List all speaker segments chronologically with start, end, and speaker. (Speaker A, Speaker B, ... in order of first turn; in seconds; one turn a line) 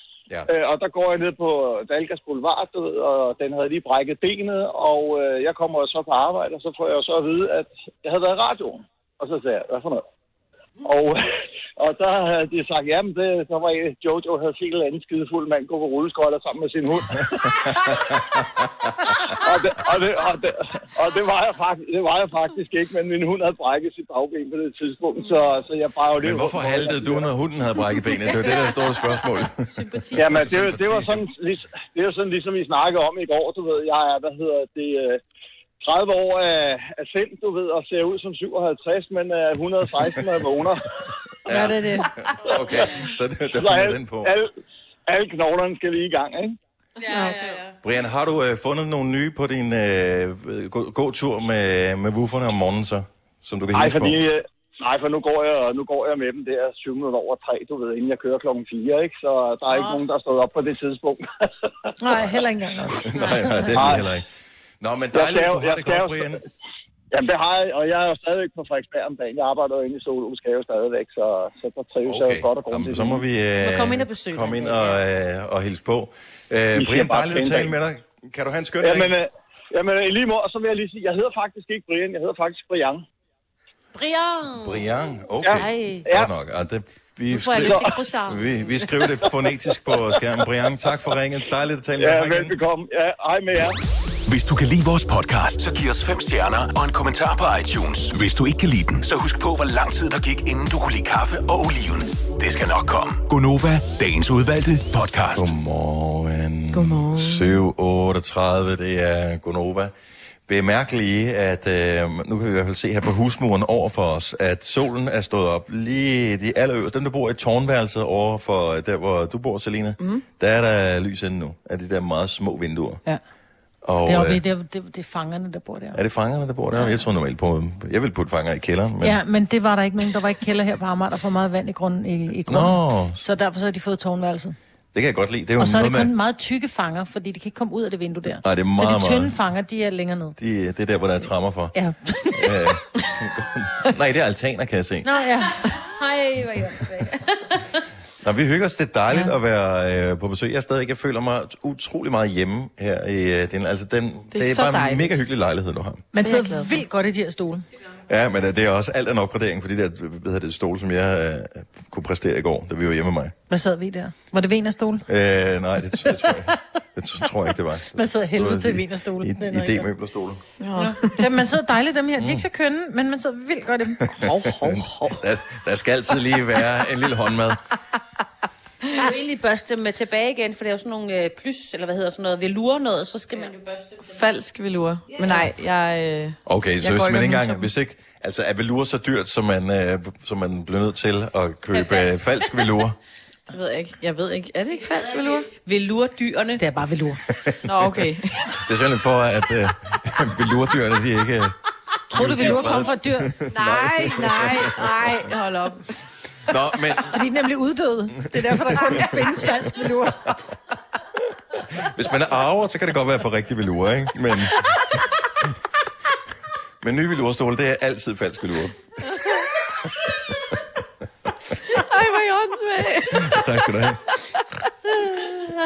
Speaker A: 0.5-10.0
Speaker A: 10.8-17.6
Speaker B: 17.6-19.1
Speaker A: 19.4-27.3
Speaker B: 26.2-31.2
Speaker A: 30.1-35.2
Speaker A: 35.8-40.8
Speaker B: 41.5-44.3
Speaker C: 41.5-42.1
Speaker A: 43.6-44.5
Speaker A: 45.1-46.5
Speaker C: 47.1-47.5
Speaker D: 47.2-47.6
Speaker B: 47.8-54.2
Speaker A: 53.7-61.7
Speaker C: 62.0-63.7
Speaker B: 63.0-64.3
Speaker A: 63.8-64.1
Speaker B: 64.8-66.4
Speaker A: 65.1-66.4
Speaker A: 67.1-73.2
Speaker B: 72.0-79.1
Speaker D: 73.6-75.0
Speaker A: 76.8-77.7
Speaker A: 78.8-83.0
Speaker D: 83.9-84.9
Speaker B: 84.6-92.5
Speaker A: 85.4-86.3
Speaker D: 85.5-86.1
Speaker D: 87.3-89.0
Speaker A: 87.6-88.0
Speaker A: 92.0-93.8
Speaker E: 94.3-105.5
Speaker B: 105.3-109.9
Speaker F: 106.7-107.6
Speaker B: 110.5-123.0
Speaker B: 123.8-124.4
Speaker C: 124.0-126.0
Speaker B: 126.0-129.2
Speaker C: 129.0-134.6
Speaker B: 132.5-133.2
Speaker B: 134.9-136.1
Speaker C: 135.6-140.4
Speaker B: 138.4-139.3
Speaker B: 140.4-141.8
Speaker C: 141.8-142.6
Speaker B: 142.3-145.1
Speaker C: 145.0-145.6
Speaker D: 145.7-147.6
Speaker B: 148.2-156.1
Speaker F: 154.3-155.1
Speaker C: 156.1-157.7
Speaker F: 156.2-156.8
Speaker B: 158.1-163.3
Speaker C: 163.5-165.1
Speaker B: 165.1-170.4
Speaker C: 167.9-169.9
Speaker F: 170.6-171.1
Speaker C: 170.8-174.6
Speaker B: 172.2-172.4
Speaker B: 174.1-177.6
Speaker D: 178.9-184.0
Speaker F: 184.0-187.7
Speaker D: 185.1-185.4
Speaker B: 186.5-193.0
Speaker D: 191.7-192.5
Speaker F: 193.5-195.5
Speaker D: 195.0-196.6
Speaker C: 196.6-197.2
Speaker B: 197.3-197.6
Speaker F: 197.7-198.5
Speaker B: 198.6-201.6
Speaker B: 202.1-205.3
Speaker C: 202.1-203.3
Speaker F: 203.5-205.8
Speaker B: 206.5-207.2
Speaker C: 207.1-210.4
Speaker B: 208.2-209.7
Speaker B: 211.6-214.8
Speaker B: 216.8-218.8
Speaker F: 221.7-223.4
Speaker B: 223.1-224.0